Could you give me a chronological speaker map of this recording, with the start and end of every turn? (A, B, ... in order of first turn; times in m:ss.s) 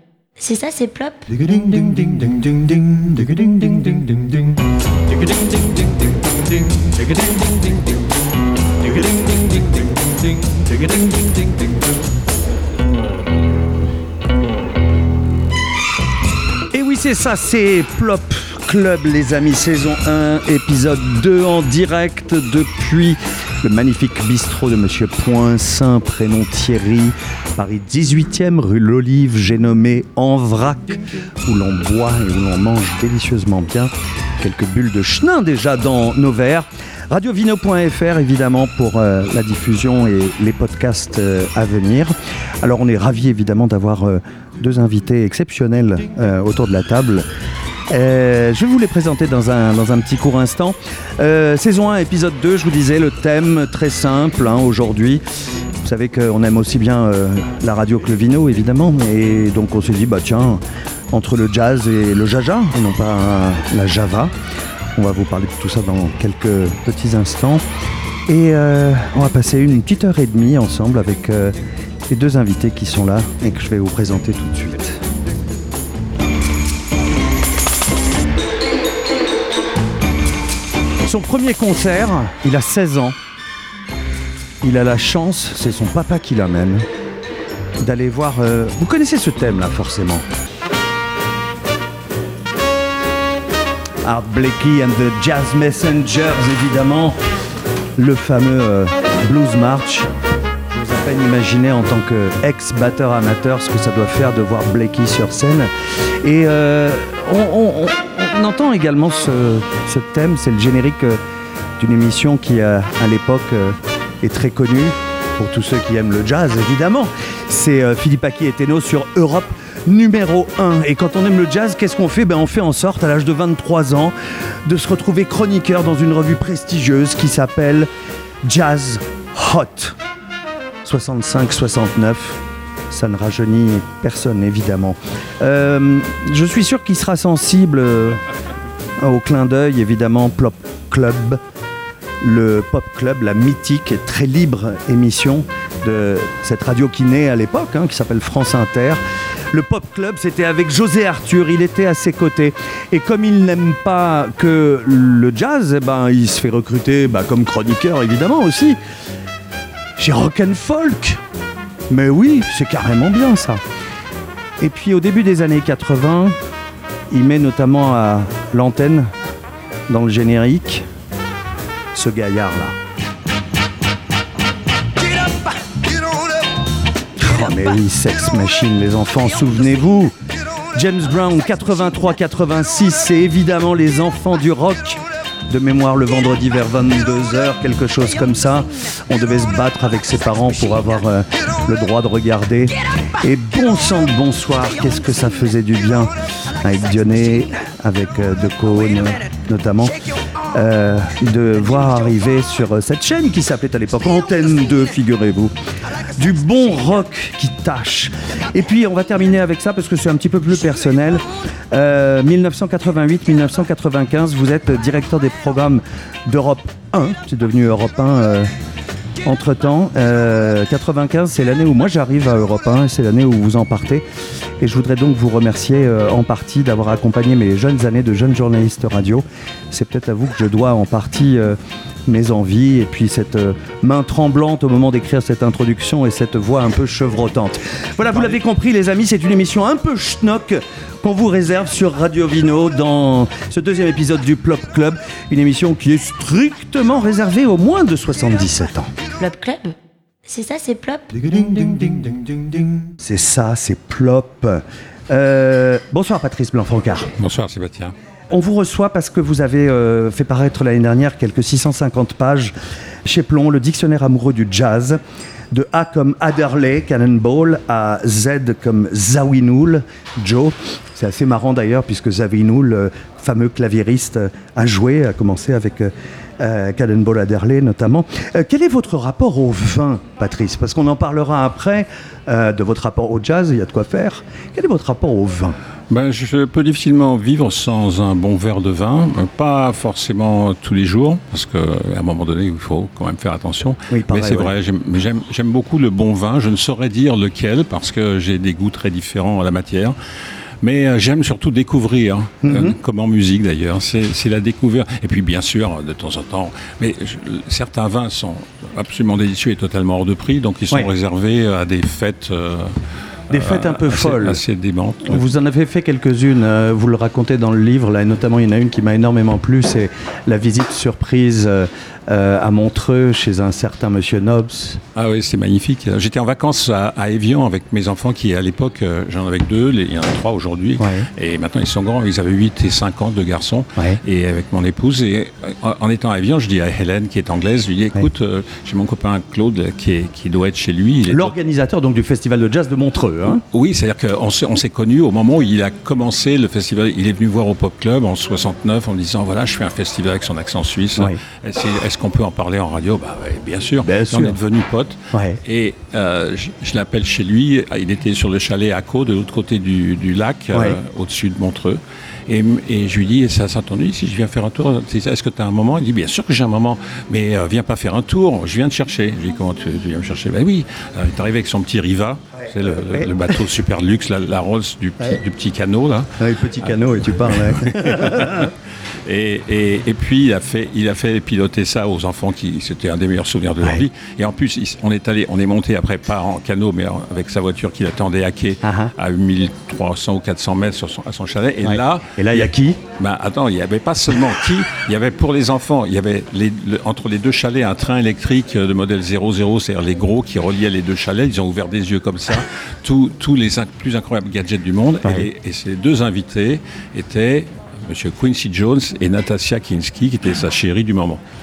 0:00.4-0:01.3 A
0:16.7-0:47.2 B
0:47.9-0:55.2 B
0:55.8-1:04.3 B
1:05.0-1:07.6 B
1:08.3-1:11.5 B
1:12.1-1:15.0 B
1:21.0-1:23.2 B
1:24.6-1:26.8 B
1:27.8-1:30.2 B
1:34.0-1:37.2 B
1:38.0-1:40.1 B
1:40.7-1:45.7 B
1:46.2-1:51.2 B
1:51.8-2:04.1 B
2:04.6-2:07.9 B
2:08.4-2:10.0 B
2:10.8-2:18.2 B
2:19.0-2:21.4 B
2:22.2-2:29.0 B
2:29.5-2:38.8 B
2:40.0-2:41.2 B
2:41.9-2:43.6 B
2:44.6-2:46.4 B
2:47.1-2:49.1 B
2:49.9-2:50.9 B
2:51.9-2:52.8 B
2:57.2-3:00.1 B
3:00.7-3:20.0 B
3:20.5-3:38.5 B
3:39.2-3:44.0 B
3:44.6-4:08.9 B
4:09.2-4:11.4 A
4:13.0-4:17.1 B
4:17.2-4:17.9 C
4:18.3-4:25.0 B
4:25.5-4:45.6 B
4:45.9-5:00.0 C
4:53.9-4:54.5 B
5:00.6-5:12.8 C
5:02.4-5:02.8 B
5:13.3-5:14.4 B
5:13.3-5:15.2 C
5:15.0-5:24.8 B
5:24.9-5:41.3 C
5:30.8-5:31.1 B
5:41.1-5:43.4 B
5:43.5-6:16.1 C
5:53.8-5:54.4 B
5:55.1-5:55.4 B
6:00.5-6:00.8 B
6:16.2-6:18.5 B
6:17.3-6:18.5 C
6:19.0-6:51.2 C
6:28.6-6:28.9 B
6:31.6-6:32.8 B